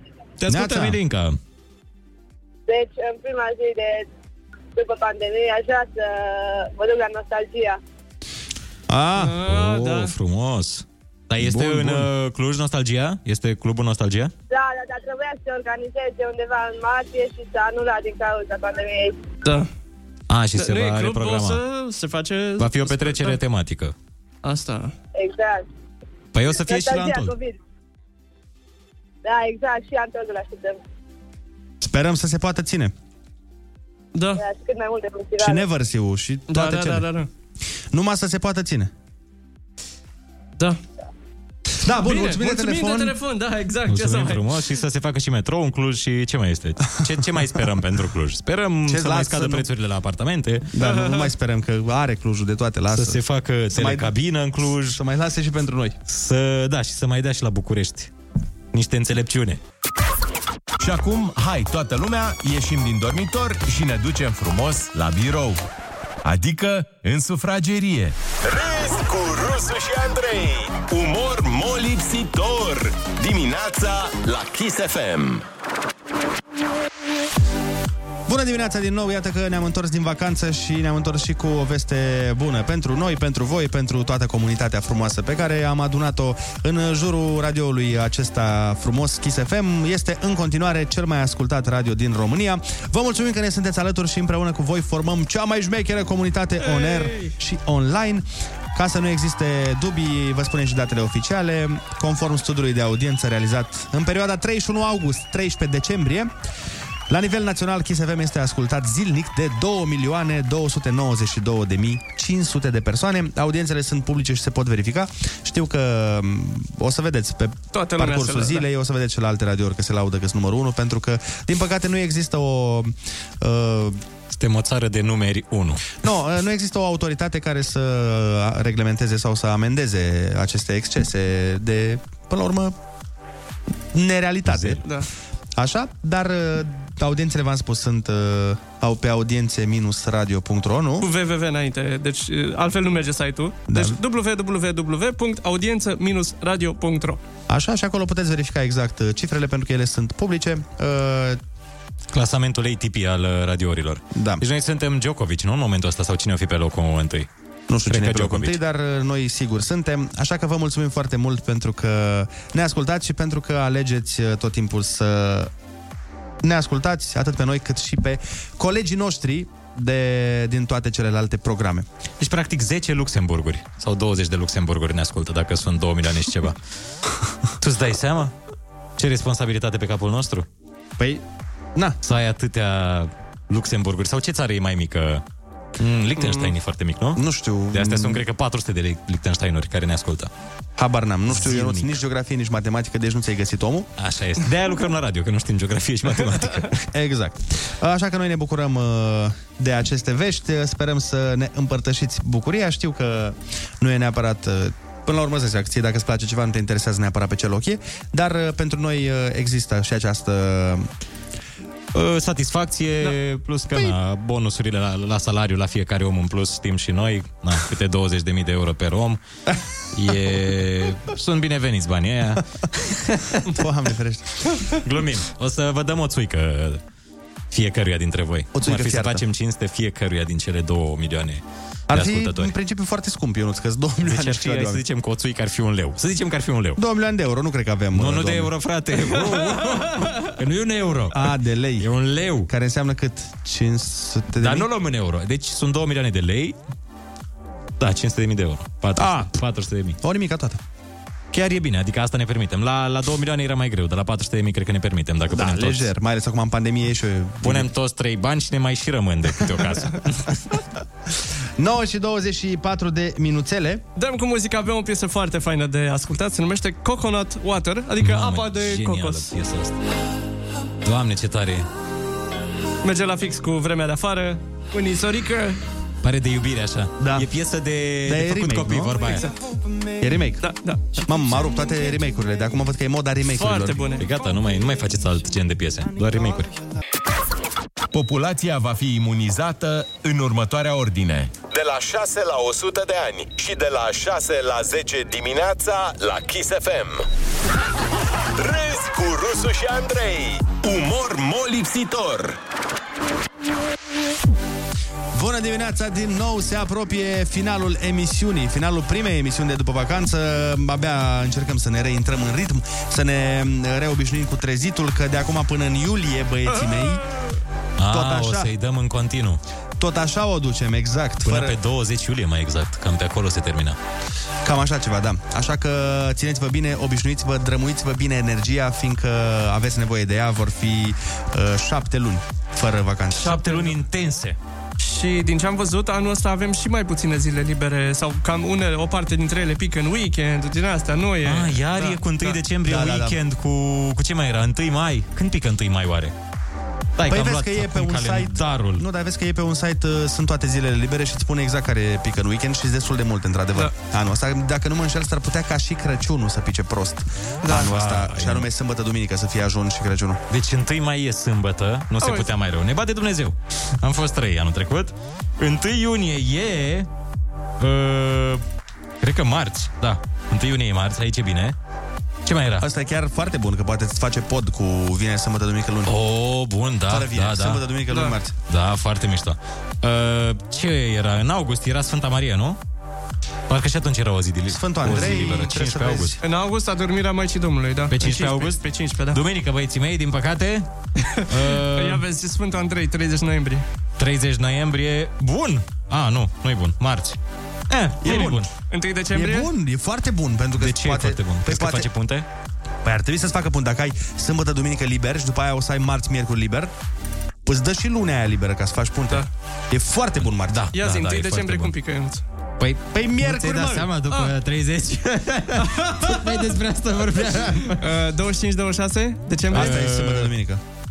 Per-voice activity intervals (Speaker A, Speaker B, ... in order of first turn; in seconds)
Speaker A: 0.4-1.4, 9.4-14.3, 20.3-21.6, 22.6-23.9, 26.3-27.4, 43.9-50.7, 52.9-55.0, 56.1-58.1, 58.7-59.6, 124.3-126.0, 134.5-134.8, 152.1-157.3, 157.8-158.6, 172.2-176.6, 177.6-178.3, 179.0-180.5, 182.0-185.2, 185.8-190.3, 191.3-192.0, 194.0-196.8, 211.9-219.2, 219.9-223.5, 224.8-226.8, 227.5-232.5, 234.0-236.8, 237.9-242.5, 244.4-246.6, 247.8-250.0, 251.3-255.9, 257.4-260.4, 268.0-269.8, 270.9-271.7, 276.0-279.3, 284.0-286.5, 317.8-319.4, 321.2-323.8, 333.1-334.4, 341.2-346.1, 347.0-348.9, 357.5-358.5, 360.3-366.9, 367.6-368.4, 369.0-371.6, 372.3-372.6, 375.9-377.6, 378.5-382.6, 383.5-386.2, 387.9-390.7, 391.3-392.1, 394.0-397.2, 397.7-398.5, 400.6-402.3, 410.4-411.7, 412.6-417.8, 419.5-420.3
Speaker B: 0.5-1.0, 8.9-9.4, 11.4-12.1, 31.8-32.9, 35.4-37.1, 37.9-38.9, 41.8-43.1, 48.9-49.7, 50.7-53.2, 53.7-56.0, 78.3-106.3, 107.1-124.0, 126.0-132.8, 133.9-134.8, 135.6-141.1, 143.7-144.0, 147.5-151.4, 154.2-154.4, 157.7-165.5, 166.4-171.9, 181.0-181.2, 187.2-188.2, 190.8-193.9, 196.9-210.9, 223.5-224.6, 228.5-229.2, 231.9-234.8, 236.8-238.5, 241.1-241.9, 242.4-244.7, 249.0-249.3, 250.0-250.6, 255.3-257.7, 261.6-263.8, 277.0-277.3, 278.1-279.1, 280.0-280.4, 281.0-284.0, 305.1-317.0, 317.9-318.5, 319.8-321.6, 324.4-333.4, 342.6-343.2, 347.1-360.2, 372.6-375.9, 376.9-378.3, 384.5-386.2, 398.0-398.5, 399.1-401.9, 402.9-406.7, 407.4-410.7, 412.9-413.9, 419.5-420.6
Speaker C: 2.7-4.1, 4.8-7.8, 14.5-19.2, 25.1-25.6, 26.6-27.6, 29.2-30.8, 34.4-35.7
Speaker D: 9.2-10.1, 19.4-19.7, 20.6-23.4, 24.4-24.9, 34.1-34.4, 36.5-37.3, 42.1-44.5, 50.8-51.2, 96.6-97.3, 117.7-118.6, 134.8-135.1, 141.0-147.2, 186.2-186.5, 264.0-269.3, 272.8-275.6, 280.4-281.1, 283.3-284.1, 333.3-333.7, 334.8-342.4, 357.4-357.7, 362.0-362.3, 384.9-385.6, 386.2-389.2, 391.0-393.6, 398.0-399.5, 410.7-412.2, 417.7-419.8
Speaker E: 60.8-65.6, 66.2-75.5, 287.9-297.1, 298.4-302.4